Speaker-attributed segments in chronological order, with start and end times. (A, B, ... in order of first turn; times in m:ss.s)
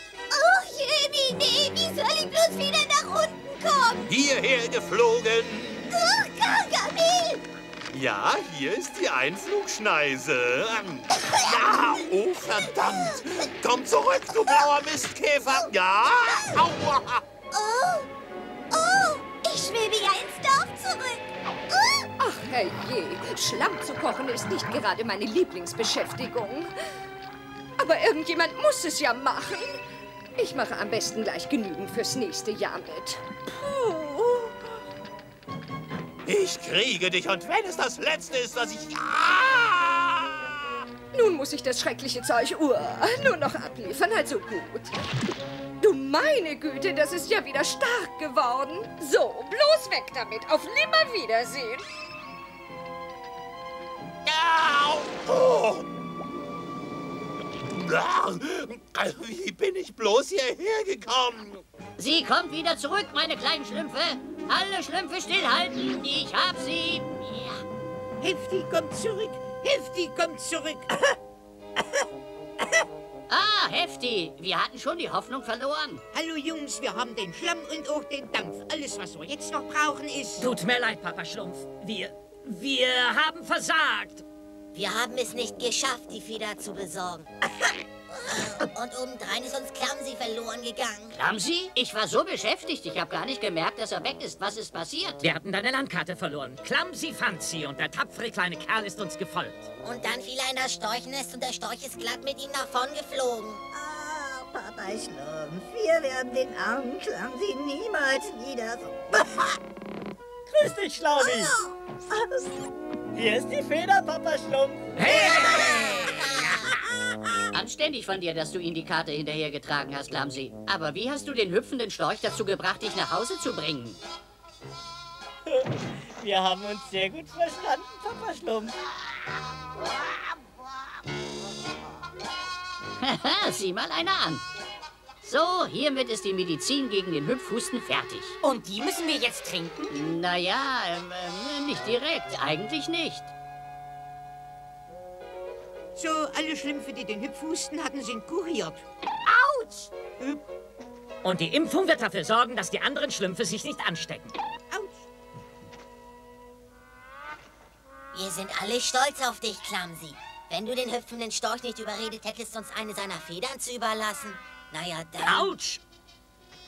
0:00.3-0:04.1 A
0:04.1-0:05.9 B
0:05.9-0:07.4 A
0:07.9-0:17.2 B
0:17.5-0:18.0 A
0:18.7-0:21.2 A
0:22.2-0:26.7 C
0:27.8-0:29.8 C
0:30.4-0:34.7 C
0:36.2-0:40.5 B
0:41.1-0:44.9 C
0:45.8-0:51.8 C
0:54.2-0:55.8 B
0:57.7-1:01.6 B
1:02.0-1:07.6 D
1:08.2-1:10.9 E
1:13.3-1:16.0 D
1:16.1-1:20.5 E
1:20.4-1:24.2 F
1:24.7-1:27.3 G
1:28.1-1:31.2 G
1:31.1-1:35.2 D
1:35.2-1:39.7 F
1:39.8-1:43.6 G
1:43.7-1:49.5 H
1:50.5-1:51.5 I
1:51.2-1:51.7 G
1:53.1-1:54.8 I
1:55.0-1:56.0 D
1:55.4-1:56.6 G
1:57.5-2:04.0 D
2:05.4-2:08.7 I
2:13.0-2:14.4 D
2:15.2-2:18.4 D
2:18.4-2:19.9 J
2:19.9-2:23.3 D
2:25.9-2:28.8 E
2:29.2-2:30.0 J
2:30.2-2:30.4 E
2:31.2-2:34.3 F
2:34.7-2:35.0 E
2:38.1-2:45.5 G
2:45.2-2:45.8 F